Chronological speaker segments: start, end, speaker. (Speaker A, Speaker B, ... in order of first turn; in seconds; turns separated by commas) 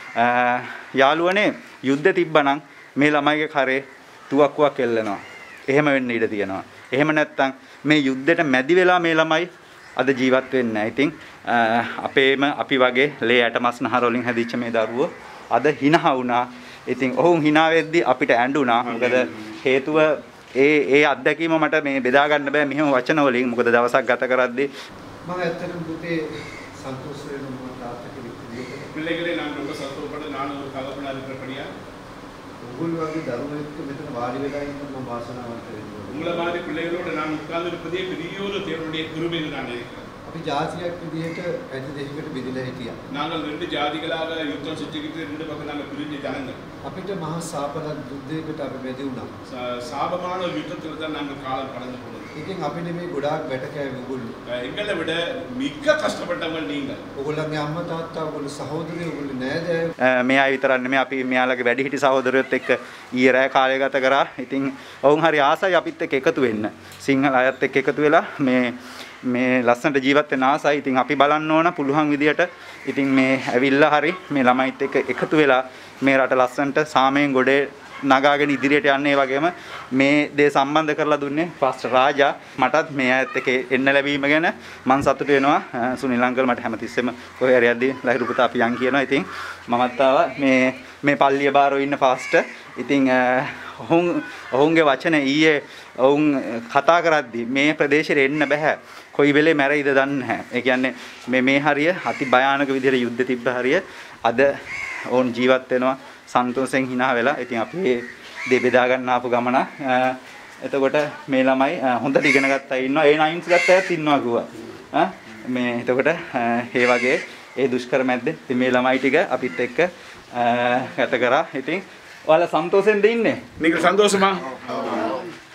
Speaker A: 0.2-24.7, Speaker B: 18.9-19.4, Speaker C: 25.2-28.9, Speaker B: 28.9-31.7, Speaker C: 32.6-36.5, Speaker B: 36.1-40.1, Speaker C: 40.3-43.0, Speaker B: 43.1-46.6, Speaker C: 46.8-49.3, Speaker B: 49.5-52.3, Speaker C: 52.4-54.3, Speaker B: 54.5-57.0, Speaker C: 57.2-59.9, Speaker A: 60.0-104.6, Speaker A: 105.1-123.4, Speaker B: 123.6-125.2